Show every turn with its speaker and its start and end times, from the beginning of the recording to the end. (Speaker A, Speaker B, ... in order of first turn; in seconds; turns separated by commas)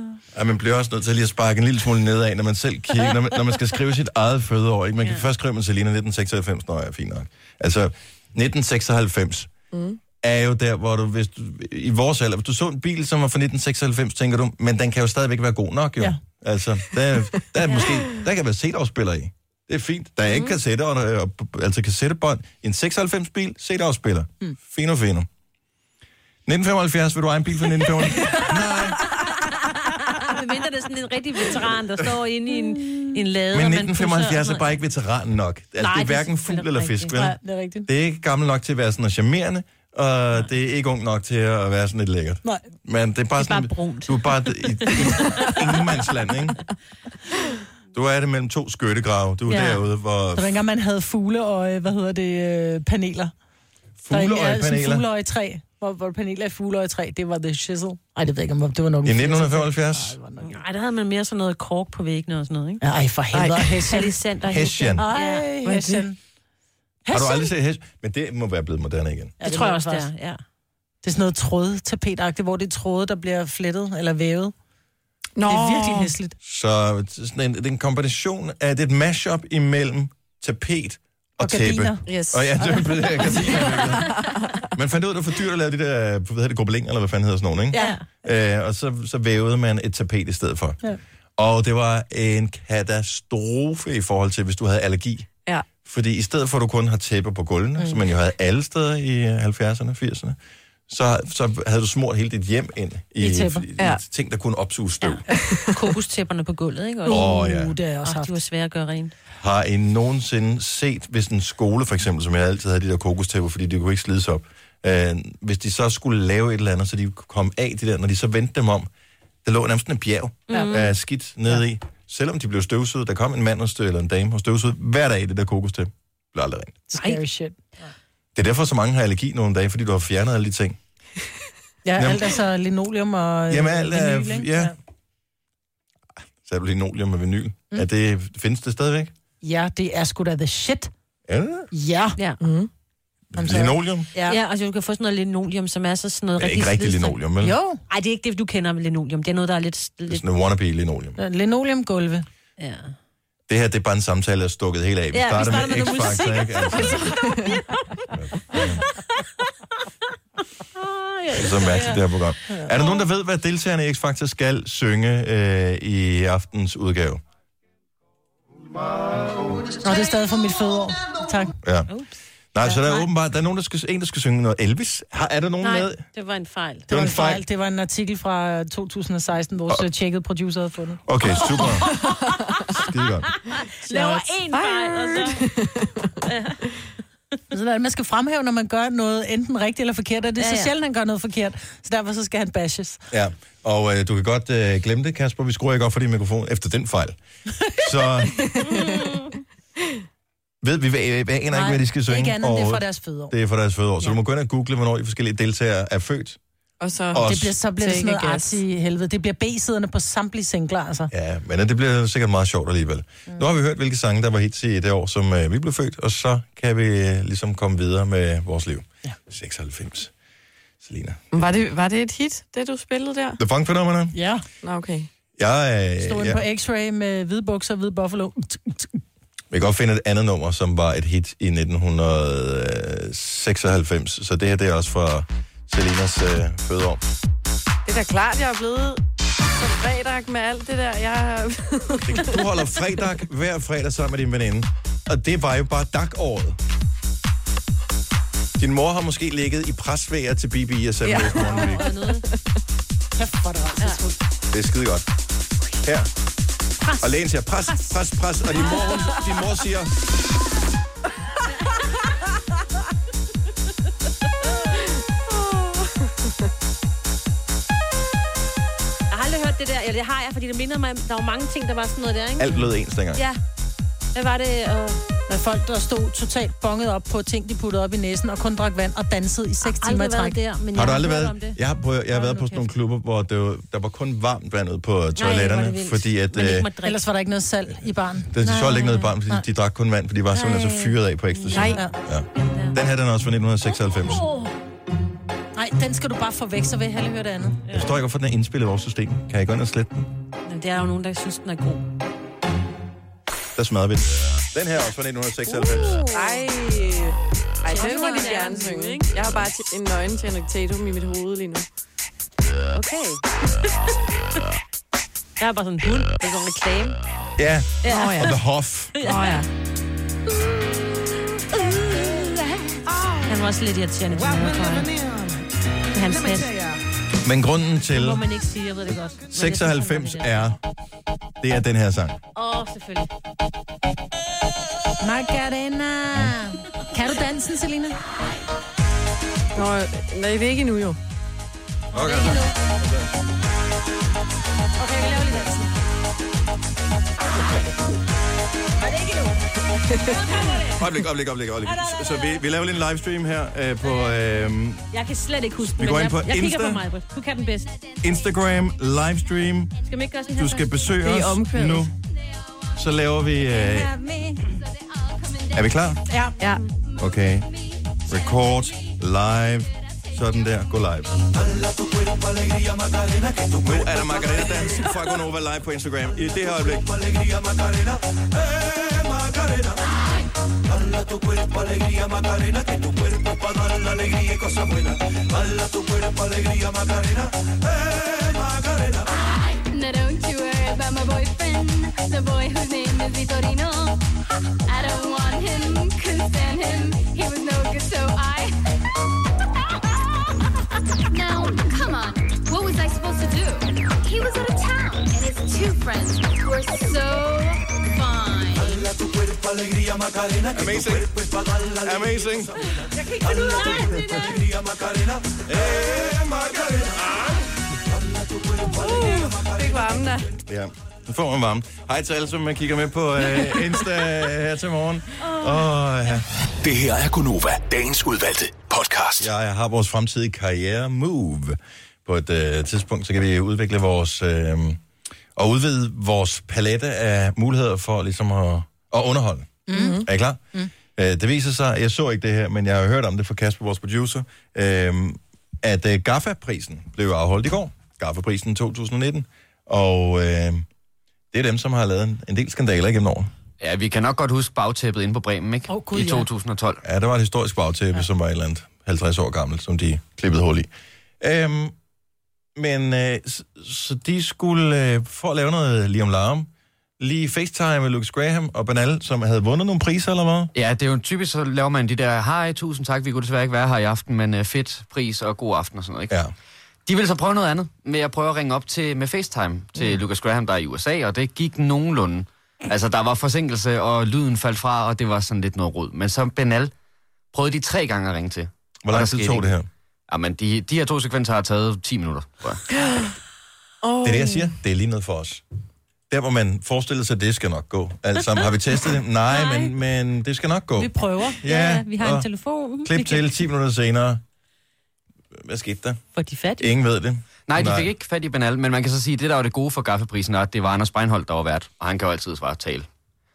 Speaker A: 0.3-9.5, Speaker B: 9.7-10.0, Speaker A: 10.2-25.3, Speaker A: 26.5-29.0, Speaker C: 29.1-34.8, Speaker A: 33.5-46.6, Speaker C: 35.8-37.2, Speaker D: 37.1-37.9, Speaker C: 43.4-45.6, Speaker A: 47.9-50.6, Speaker C: 49.5-49.8, Speaker D: 50.4-53.3, Speaker A: 54.0-55.1, Speaker D: 54.1-60.5, Speaker A: 59.0-60.2, Speaker C: 60.4-62.8, Speaker D: 62.8-64.2, Speaker B: 63.3-63.8, Speaker C: 63.9-65.5, Speaker A: 64.5-65.0, Speaker D: 65.0-66.2, Speaker B: 65.6-66.0, Speaker D: 67.0-67.5, Speaker A: 67.1-69.3, Speaker D: 69.4-70.1, Speaker C: 69.4-70.4, Speaker D: 71.0-74.5, Speaker B: 75.4-76.1, Speaker D: 75.5-76.3, Speaker A: 76.4-90.8, Speaker D: 81.4-82.0, Speaker B: 82.1-84.7, Speaker C: 87.8-88.0, Speaker A: 91.4-95.3, Speaker A: 95.8-100.4, Speaker A: 100.9-105.2, Speaker D: 103.2-103.7, Speaker B: 105.3-105.7, Speaker C: 105.7-107.3, Speaker D: 107.1-108.4, Speaker A: 107.1-107.8, Speaker C: 108.0-109.1, Speaker A: 109.4-118.9, Speaker A: 119.5-126.8, Speaker C: 120.5-120.9, Speaker D: 126.9-127.6, Speaker A: 128.3-130.8, Speaker D: 131.8-134.7, Speaker A: 132.0-132.4, Speaker A: 133.5-134.7, Speaker A: 136.4-139.1, Speaker D: 139.4-140.9, Speaker A: 141.3-141.7, Speaker D: 141.7-142.2, Speaker B: 142.4-142.7, Speaker A: 143.3-144.1, Speaker D: 143.4-144.4, Speaker C: 144.2-147.2, Speaker A: 146.4-147.6, Speaker D: 147.4-147.8, Speaker C: 147.9-150.2, Speaker A: 150.1-151.2, Speaker D: 151.2-152.3, Speaker C: 152.6-152.9, Speaker A: 153.5-157.2, Speaker C: 155.1-157.8, Speaker B: 156.8-157.6, Speaker A: 158.1-158.8, Speaker C: 160.8-162.0, Speaker A: 161.3-167.2, Speaker D: 169.8-172.0, Speaker A: 171.6-171.9, Speaker A: 172.5-176.0, Speaker C: 175.6-176.9, Speaker A: 176.9-177.4, Speaker D: 176.9-181.0, Speaker A: 181.1-181.9, Speaker A: 182.8-183.3, Speaker C: 183.5-185.4, Speaker D: 183.8-184.4, Speaker B: 184.5-186.1, Speaker C: 186.2-186.6, Speaker D: 187.5-193.0, Speaker C: 190.4-190.7, Speaker A: 193.1-197.2, Speaker A: 197.8-198.4, Speaker B: 198.4-199.2, Speaker C: 198.8-199.3, Speaker A: 200.6-206.4, Speaker D: 201.5-203.3, Speaker B: 206.8-208.6, Speaker A: 207.1-207.5, Speaker D: 207.2-211.1, Speaker A: 211.1-220.1, Speaker A: 220.8-221.2, Speaker B: 221.3-223.4, Speaker A: 223.4-224.2, Speaker D: 224.1-224.4, Speaker B: 224.6-225.1, Speaker A: 225.4-226.4, Speaker D: 226.0-229.0, Speaker A: 229.5-237.0, Speaker B: 237.9-239.0, Speaker B: 239.5-242.4, Speaker A: 242.1-246.6, Speaker A: 248.6-251.9, Speaker B: 251.0-251.8, Speaker C: 251.3-252.3, Speaker D: 253.2-254.2, Speaker A: 254.5-255.1, Speaker A: 255.8-256.1, Speaker A: 257.0-259.9, Speaker C: 258.6-259.2, Speaker B: 265.3-266.1, Speaker C: 269.1-272.6, Speaker A: 272.4-273.2, Speaker C: 273.1-273.4, Speaker C: 274.1-275.0, Speaker D: 275.3-280.4, Speaker C: 279.6-281.6, Speaker A: 280.7-286.7, Speaker C: 282.1-282.7, Speaker C: 285.2-287.0, Speaker D: 286.8-288.3, Speaker A: 288.3-294.3, Speaker C: 288.4-289.2, Speaker C: 290.3-291.8, Speaker B: 291.5-291.8, Speaker C: 292.4-292.8, Speaker C: 293.9-294.5, Speaker D: 295.6-297.6, Speaker A: 297.7-300.1, Speaker C: 300.5-301.9, Speaker A: 303.6-306.0, Speaker B: 306.1-311.7, Speaker D: 307.7-308.6, Speaker C: 307.7-309.1, Speaker C: 312.8-313.2, Speaker C: 315.4-317.0, Speaker A: 317.4-319.0, Speaker C: 317.8-318.4, Speaker B: 317.9-318.4, Speaker C: 319.0-319.4, Speaker B: 319.0-319.5, Speaker C: 321.6-322.3, Speaker C: 323.2-324.9, Speaker C: 325.9-326.5, Speaker A: 327.2-328.2, Speaker C: 327.9-330.5, Speaker A: 329.3-330.6, Speaker A: 331.4-332.2, Speaker C: 332.4-333.1, Speaker D: 335.0-338.0, Speaker B: 339.6-341.0, Speaker A: 341.9-343.1, Speaker D: 342.0-342.5, Speaker D: 344.8-345.7, Speaker D: 348.8-349.3, Speaker B: 349.9-350.6, Speaker C: 350.1-350.7, Speaker A: 350.8-354.8, Speaker C: 351.6-352.4, Speaker C: 354.9-357.7, Speaker A: 355.6-356.8, Speaker E: 357.7-358.0, Speaker A: 358.0-359.7, Speaker C: 359.9-360.9, Speaker A: 360.3-361.9, Speaker B: 361.0-361.9, Speaker A: 362.8-363.9, Speaker D: 363.7-364.4, Speaker E: 364.5-365.9, Speaker A: 365.5-366.0, Speaker D: 366.1-366.4, Speaker B: 366.4-366.7, Speaker E: 366.8-368.9, Speaker A: 367.0-367.5, Speaker A: 368.1-371.4, Speaker A: 373.5-377.2, Speaker A: 378.4-379.3, Speaker A: 383.5-384.2, Speaker A: 384.8-385.2, Speaker E: 389.5-394.0, Speaker E: 394.7-398.6, Speaker E: 401.1-408.9, Speaker A: 410.5-412.7, Speaker C: 413.3-414.2, Speaker A: 415.2-417.4, Speaker B: 418.7-420.3, Speaker A: 420.4-426.2, Speaker C: 425.3-425.7, Speaker F: 426.6-429.3, Speaker A: 429.2-434.8, Speaker A: 435.4-450.7, Speaker D: 439.7-440.0, Speaker B: 439.7-440.1, Speaker A: 451.3-453.3, Speaker G: 453.6-456.8, Speaker D: 455.7-456.3, Speaker A: 456.8-460.7, Speaker A: 461.2-461.8, Speaker A: 462.6-466.5, Speaker A: 467.0-470.5, Speaker G: 470.5-476.1, Speaker G: 476.9-486.7, Speaker G: 487.3-489.5, Speaker A: 488.9-489.7, Speaker G: 490.1-492.6, Speaker B: 492.8-493.1, Speaker B: 493.8-494.5, Speaker A: 494.0-495.4, Speaker A: 496.1-502.3, Speaker C: 499.3-499.7, Speaker D: 500.8-501.4, Speaker C: 501.4-503.4, Speaker A: 502.8-504.2, Speaker A: 505.3-506.0, Speaker C: 506.1-506.7, Speaker A: 506.6-507.9, Speaker G: 507.5-512.9